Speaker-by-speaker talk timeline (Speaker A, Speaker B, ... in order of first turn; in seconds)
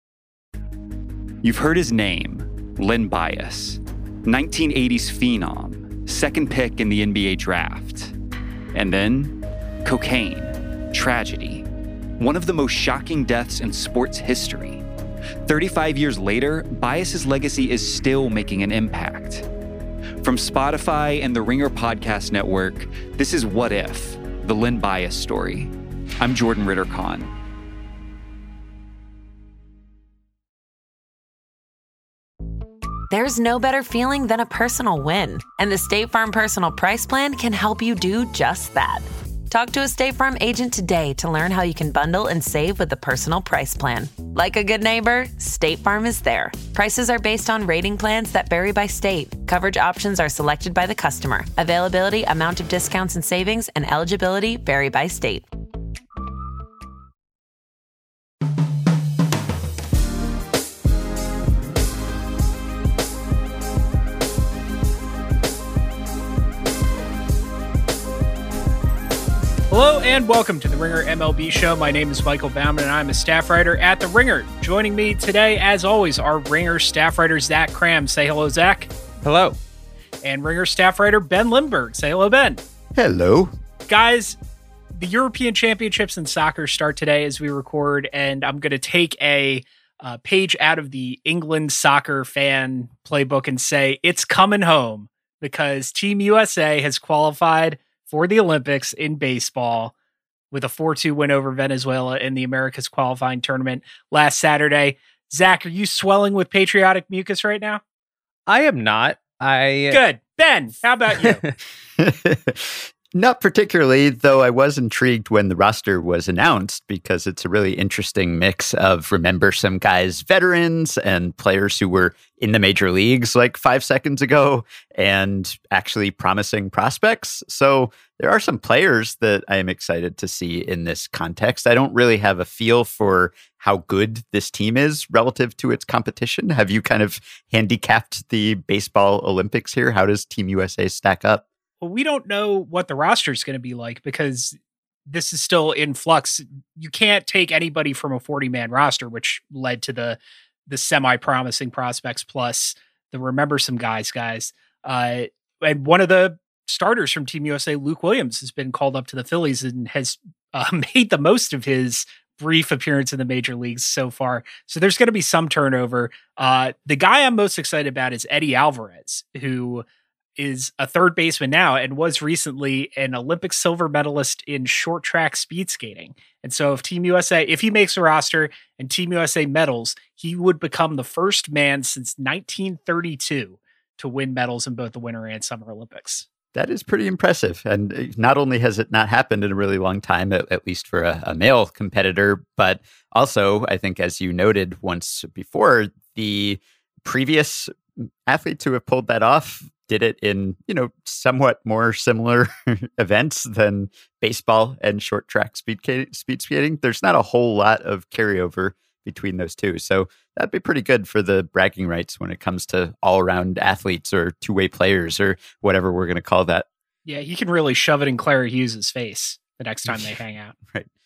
Speaker A: 1.4-8.1, 8.7-11.7, 12.2-14.8, 15.4-19.5, 20.2-27.3
Speaker B: 33.1-55.5
Speaker C: 69.7-78.9, 80.2-82.6, 83.9-84.4, 84.9-99.9, 100.5-107.8, 109.9-111.4, 141.8-144.6, 145.1-169.8, 170.4-186.2, 217.1-220.5
Speaker D: 79.2-79.6, 108.5-110.0, 111.2-111.5
Speaker E: 82.9-83.5, 112.0-141.4, 186.5-216.7, 219.8-220.2